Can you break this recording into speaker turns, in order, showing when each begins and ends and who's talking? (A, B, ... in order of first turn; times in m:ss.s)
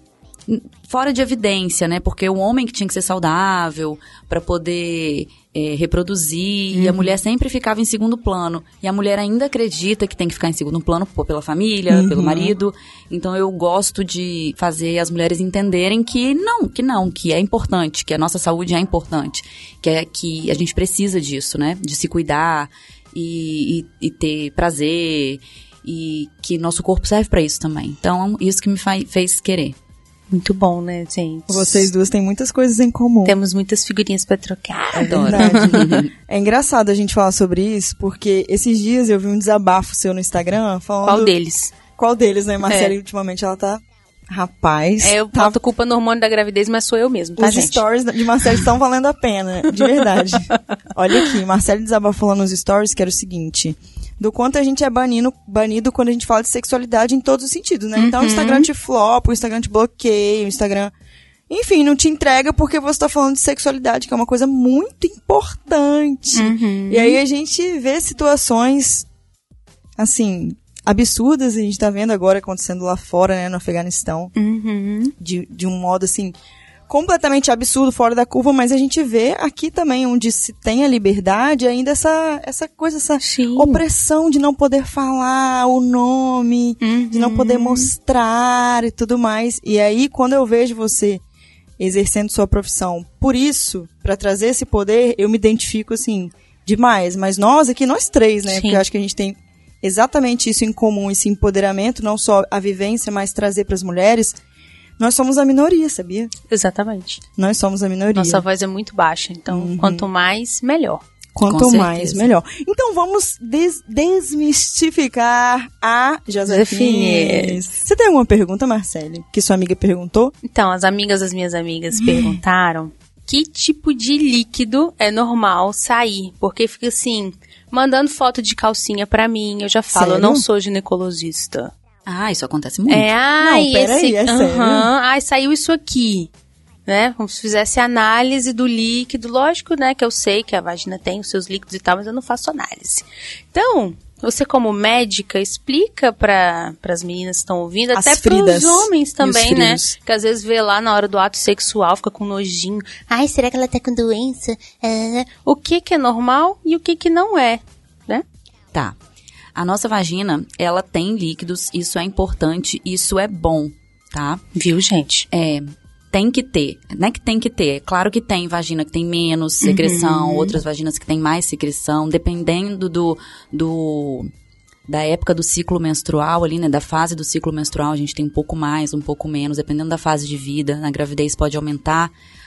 0:00.5-0:29.8 A
0:06.7-0:07.1 B
0:11.9-0:12.6 C
0:30.3-0:31.9 B
0:31.5-0:33.4 C
0:33.2-0:35.9 B
0:34.9-0:36.1 A
0:35.1-0:41.3 C
0:41.0-0:41.7 B
0:42.0-0:45.6 C
0:42.6-0:43.0 B
0:45.0-0:47.8 B
0:47.4-1:00.9 C
0:58.0-0:58.7 B
1:01.5-1:09.1 C
1:06.4-1:07.2 B
1:10.0-1:14.3 C
1:14.4-1:15.1 B
1:15.2-1:16.4 C
1:16.9-1:31.2 C
1:23.2-1:23.8 B
1:26.8-1:27.9 B
1:31.8-1:44.4 C
1:38.5-1:38.8 B
1:45.0-1:46.3 C
1:46.5-1:47.2 B
1:47.4-1:48.4 C
1:48.2-1:51.0 B
1:49.5-1:50.1 C
1:51.4-2:00.3 C
1:51.4-1:52.3 A
1:56.4-1:57.6 B
2:00.4-2:11.7 B
2:01.9-2:02.4 C
2:09.9-2:10.4 C
2:12.1-2:13.1 A
2:12.9-2:16.3 B
2:13.4-2:14.9 C
2:16.9-2:38.2 B
2:27.9-2:29.9 C
2:39.6-2:44.4 A
2:44.6-2:45.3 B
2:45.3-2:54.3 A
2:49.6-2:50.6 B
2:54.9-3:02.1 A